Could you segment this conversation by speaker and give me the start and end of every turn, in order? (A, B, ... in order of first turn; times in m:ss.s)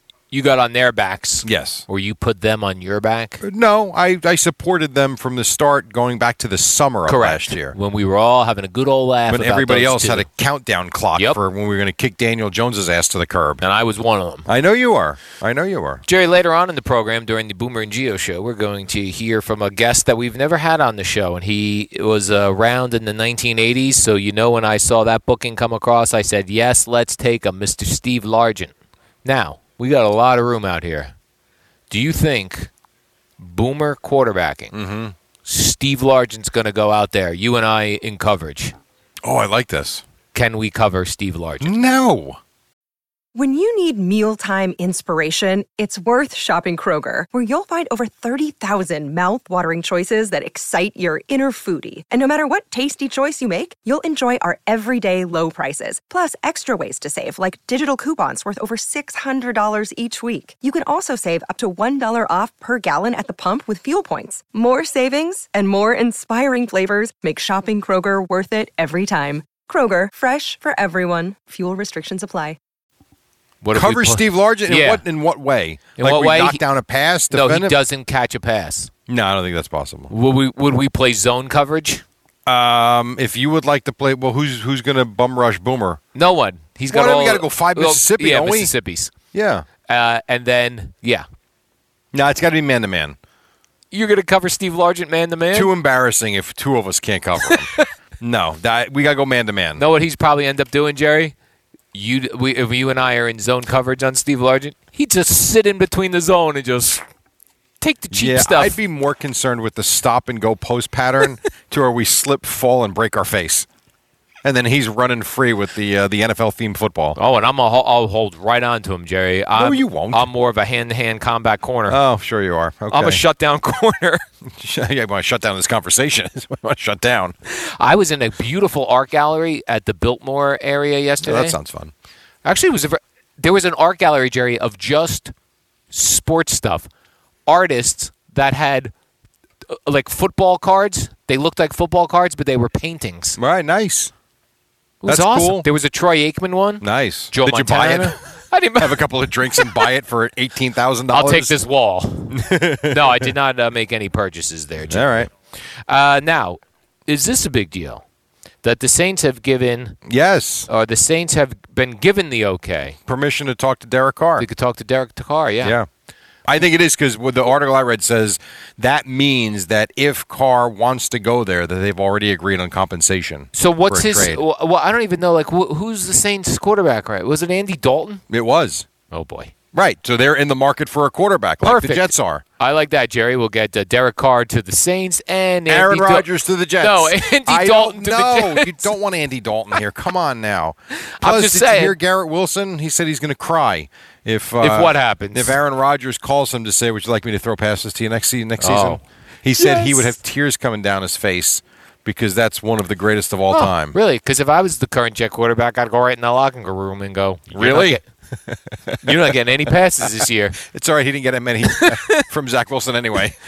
0:00.3-0:03.4 A
0:01.4-0:01.8 B
0:03.4-0:07.8 B
0:07.1-0:10.3 A
0:09.3-0:13.6 B
0:13.6-0:14.5 A
0:14.5-0:16.0 B
0:16.0-0:31.1 A
0:31.9-0:32.7 A
0:33.4-0:34.7 A
0:34.7-0:35.1 B
0:35.4-0:38.7 A
0:39.2-0:40.0 B
0:40.3-0:41.7 A
0:41.6-0:42.4 B
0:43.3-1:12.6 C
1:13.6-1:15.0 A
1:13.7-1:17.8 B
1:16.0-1:16.6 A
1:17.3-1:18.9 A
1:19.1-1:20.1 B
1:20.1-1:22.0 A
1:22.4-1:26.0 B
1:26.1-1:29.1 A
1:26.9-1:28.7 B
1:29.3-1:29.6 B
1:29.9-1:31.3 A
1:32.1-1:33.2 B
1:33.9-1:35.7 A
1:35.5-1:39.8 B
1:37.4-1:37.8 A
1:39.8-1:41.3 A
1:41.9-1:47.0 A
1:47.8-1:48.8 A
1:48.1-1:53.7 B
1:54.4-1:57.2 B
1:57.2-2:02.0 A
1:59.6-2:00.2 B
2:01.9-2:03.2 B
2:02.9-2:04.2 A
2:04.6-2:07.3 B
2:07.5-2:11.6 A
2:11.2-2:11.9 B
2:12.4-2:15.3 A
2:15.9-2:16.9 A
2:17.4-2:18.9 A
2:19.8-2:23.4 A
2:23.4-2:24.1 B
2:25.0-2:29.9 A
2:25.0-2:25.7 B
2:26.8-2:28.2 B
2:28.8-2:31.6 B
2:31.1-2:35.3 A
2:32.3-2:33.3 B
2:34.8-2:35.3 B
2:35.9-2:38.0 A
2:38.6-2:40.0 A
2:40.1-2:40.7 B
2:40.7-2:43.0 A
2:43.1-2:44.4 B
2:44.4-2:45.7 A
2:45.6-2:45.9 B
2:46.4-2:54.4 B
2:53.5-2:58.2 A
2:58.3-2:58.9 B
2:59.1-2:59.5 A
2:59.7-3:02.4 B
3:01.6-3:06.2 A
3:05.7-3:23.9 B
3:06.8-3:08.9 A
3:11.2-3:11.9 A
3:14.6-3:15.6 A
3:18.6-3:19.0 A
3:19.6-3:20.2 A
3:23.5-3:28.0 A
3:27.5-3:29.0 B
3:29.0-3:30.6 A
3:30.7-3:33.4 B
3:31.7-3:32.2 A